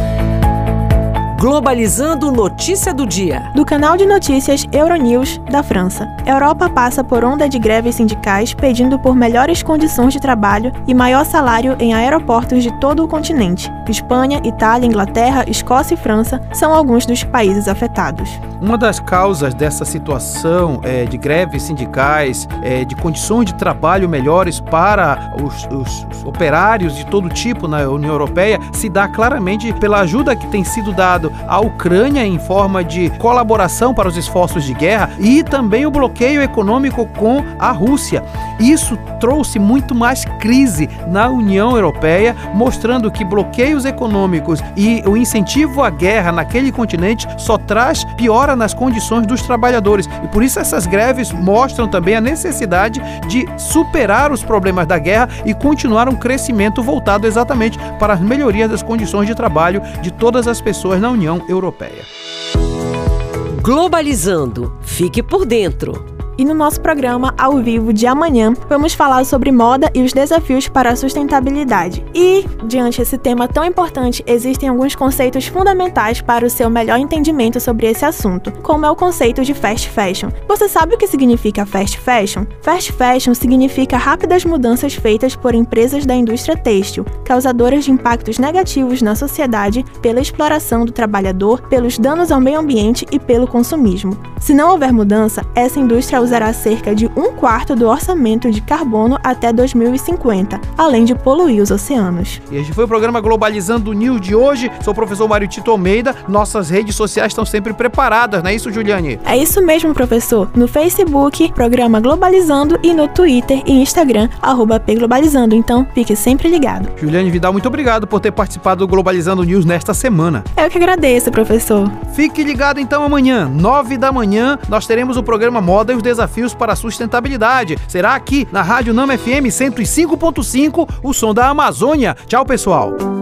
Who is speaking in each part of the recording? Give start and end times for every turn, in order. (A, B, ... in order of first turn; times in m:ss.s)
0:01.3-0:03.5 A
0:03.5-0:18.4 B
0:18.6-1:02.1 C
1:03.5-1:06.0 A
1:06.4-1:42.4 B
1:42.5-1:49.2 C
1:49.2-1:56.9 B
1:57.0-2:00.4 C
2:00.6-2:02.0 B
2:02.1-2:13.0 C